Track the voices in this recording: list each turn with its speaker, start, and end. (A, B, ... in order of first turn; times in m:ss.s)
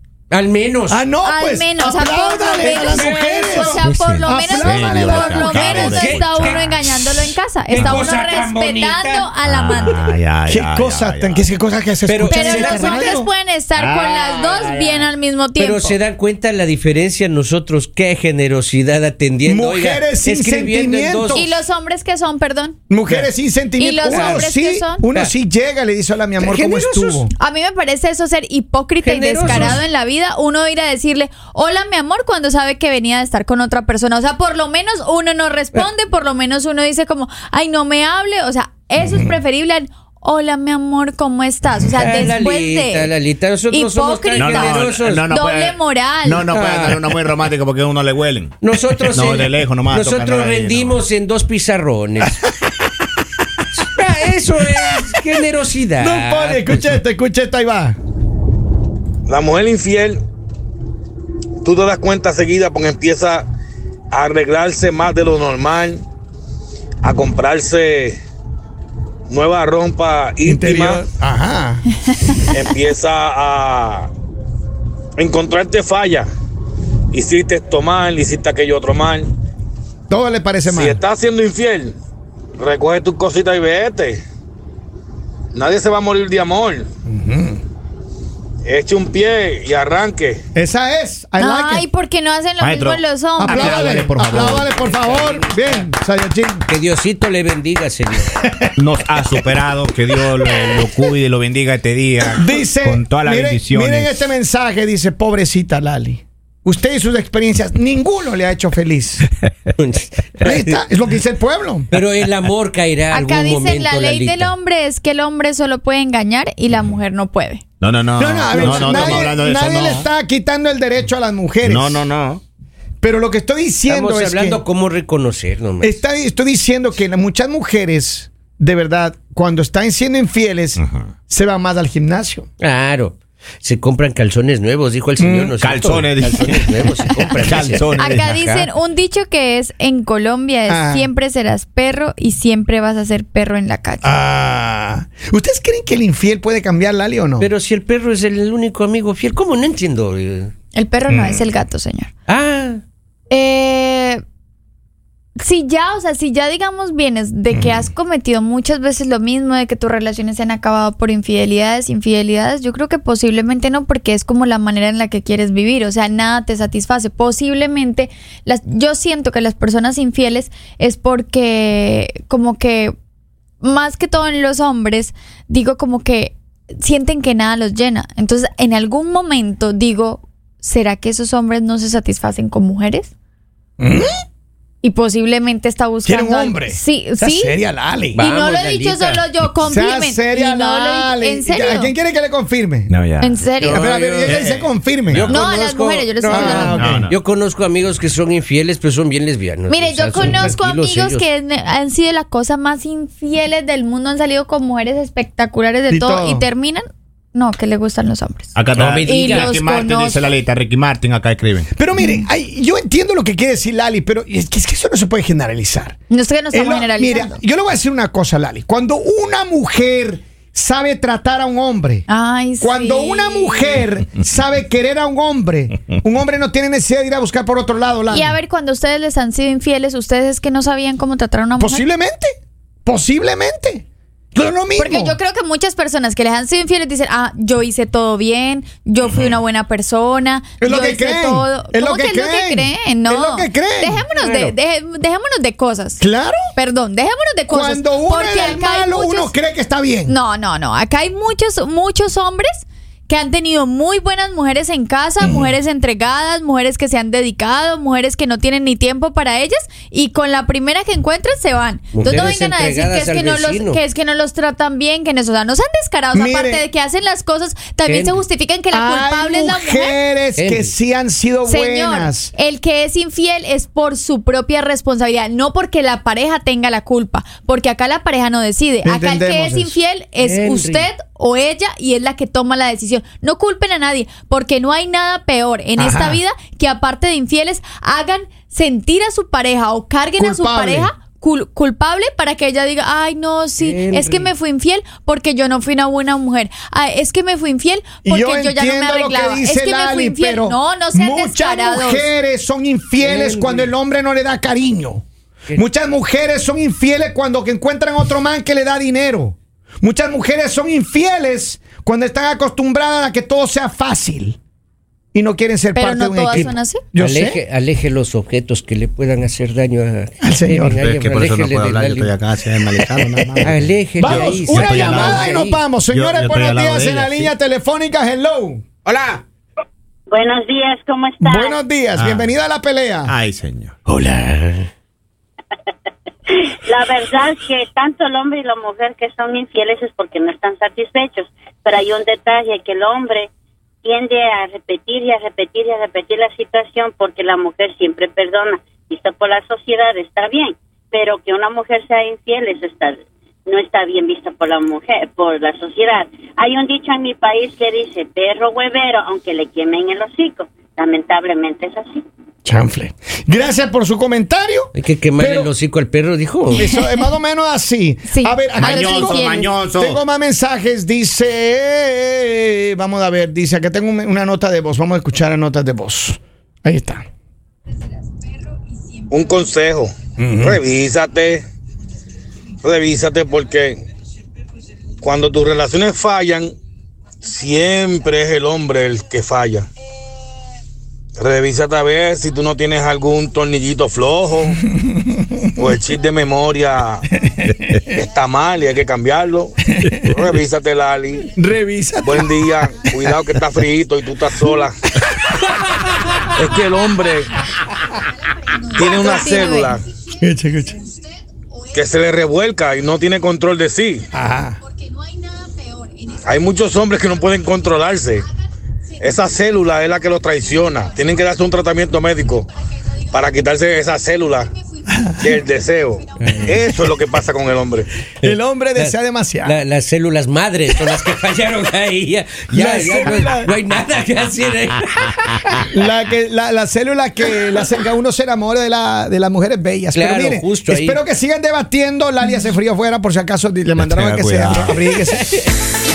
0:00.3-0:01.0 A
0:00.9-0:06.1 B
0:01.2-0:10.1 C
0:02.6-0:03.8 A
0:03.8-0:08.1 D
0:05.7-0:06.7 A
0:07.7-0:09.3 A
0:09.4-0:11.5 D
0:10.5-0:13.3 B
0:12.1-0:13.1 A
0:12.3-0:16.0 C
0:13.8-0:15.1 D
0:15.6-0:21.5 A
0:19.4-0:21.5 B
0:21.3-0:22.8 C
0:22.9-0:27.3 B
0:23.8-0:25.1 C
0:24.1-0:24.5 A
0:26.4-0:27.2 A
0:27.4-0:43.1 C
0:29.0-0:29.8 A
0:29.4-0:29.8 B
0:39.0-0:39.4 B
0:42.0-0:45.2 A
0:43.7-0:46.5 C
0:44.3-0:51.0 D
0:46.5-0:47.1 A
0:48.6-0:52.4 A
0:53.8-0:56.8 A
0:56.0-0:58.0 B
0:59.3-1:00.2 E
1:01.6-1:03.5 E
1:04.1-1:06.0 E
1:07.0-1:08.2 E
1:09.3-1:11.0 E
1:10.4-1:11.8 B
1:12.5-1:14.1 E
1:15.2-1:16.3 E
1:17.1-1:19.3 E
1:20.1-1:21.0 B
1:20.7-1:22.0 E
1:22.6-1:24.2 E
1:25.5-1:26.9 E
1:27.1-1:27.6 B
1:28.7-1:30.4 E
1:30.6-1:31.8 B
1:31.4-1:34.1 C
1:32.6-1:34.8 D
1:33.4-1:36.6 B
1:34.3-1:35.9 A
1:36.7-1:38.3 A
1:38.4-1:38.7 B
1:38.8-1:44.3 D
1:40.1-1:40.8 B
1:42.3-1:49.3 B
1:49.8-1:50.8 A
1:50.4-1:51.9 B
1:51.9-1:54.5 A
1:53.1-1:57.6 C
1:57.8-2:00.1 D
1:58.2-2:02.0 B
1:58.5-1:59.3 A
2:01.6-2:02.4 D
2:03.0-2:04.6 B
2:03.9-2:06.0 A
2:05.8-2:12.5 B
2:10.8-2:11.1 D
2:12.6-2:18.7 A
2:15.2-2:15.6 B
2:15.6-2:16.8 D
2:17.3-2:18.3 D
2:18.0-2:24.1 C
2:20.7-2:21.1 B
2:24.0-2:27.5 B
2:27.4-2:30.5 A
2:30.7-2:32.1 C
2:31.1-2:31.5 B
2:32.3-2:32.8 A
2:33.3-2:34.2 C
2:35.4-2:52.9 C
2:37.5-2:37.8 B
2:53.6-3:03.1 C
3:03.8-3:04.1 B
3:04.8-3:07.6 C
3:06.0-3:08.2 B
3:08.1-3:09.3 A
3:08.2-3:11.9 C
3:09.7-3:12.9 B
3:12.9-3:15.4 D
3:13.2-3:13.9 C
3:13.6-3:14.4 A
3:13.7-3:15.3 B
3:15.1-3:21.2 A
3:15.3-3:16.9 C
3:16.3-3:17.1 B
3:16.7-3:17.2 D
3:19.7-3:30.3 C
3:25.9-3:26.5 B
3:28.6-3:31.7 D
3:28.7-3:29.5 A
3:31.7-3:36.0 B
3:32.0-3:32.3 C
3:36.1-3:37.4 C
3:36.5-3:42.1 B
3:42.1-3:43.8 C
3:42.6-3:48.4 B
3:48.1-3:51.8 C
3:51.6-3:52.4 B
3:52.9-3:55.2 B
3:54.8-4:06.0 C
4:00.6-4:04.0 B
4:04.2-4:04.6 A
4:06.0-4:06.4 B
4:06.6-4:09.3 C
4:07.5-4:10.2 B
4:10.1-4:30.0 C
4:15.2-4:15.5 B
4:21.9-4:23.8 A
4:26.1-4:26.6 B
4:27.9-4:28.2 A
4:28.7-4:32.3 B
4:30.4-4:30.7 A
4:31.5-5:02.1 C
4:38.8-4:39.8 B
4:40.2-4:40.9 A
4:45.8-4:46.2 B
4:50.2-4:50.9 B
4:53.6-4:54.3 A
4:58.0-5:14.4 B
5:03.0-5:03.7 A
5:15.1-5:17.4 B
5:15.7-5:16.8 C
5:16.3-5:22.2 A
5:20.2-5:20.8 B
5:20.7-5:27.3 D
5:22.9-5:28.6 B
5:23.4-5:25.6 A
5:28.9-5:29.2 D
5:30.1-5:31.6 F
5:31.2-5:33.2 B
5:32.0-5:32.3 D
5:33.1-5:33.7 D
5:33.9-5:34.7 A
5:36.3-5:43.3 F
5:43.8-6:02.0 F
6:02.4-6:05.5 B
6:04.7-6:06.7 A
6:06.6-6:09.2 B
6:08.1-6:09.5 C
6:08.6-6:10.0 D
6:09.8-6:17.1 B
6:19.1-6:21.5 E
6:20.2-6:20.6 B
6:22.6-6:23.8 E
6:25.0-6:26.5 E
6:27.2-6:29.7 E
6:31.2-6:34.6 E
6:34.6-6:35.5 B
6:35.6-6:37.1 E
6:37.1-6:37.8 B
6:38.0-6:39.5 E
6:39.7-6:40.1 B
6:39.9-6:40.3 D
6:40.1-6:41.3 E
6:41.4-6:43.4 B
6:42.0-6:44.8 E
6:45.0-6:45.3 B
6:46.3-6:47.3 E
6:48.7-6:49.9 E
6:48.9-6:49.8 C
6:50.1-6:50.8 B
6:51.7-6:54.1 E
6:54.1-6:54.6 B
6:56.2-6:58.3 E
6:59.0-7:02.5 E
7:03.1-7:04.5 E
7:04.9-7:05.3 B
7:05.2-7:07.9 E
7:06.2-7:06.8 A
7:08.2-7:09.6 B
7:08.2-7:15.6 A
7:12.5-7:13.5 B
7:15.7-7:25.4 B
7:19.9-7:21.0 A
7:23.8-7:24.8 D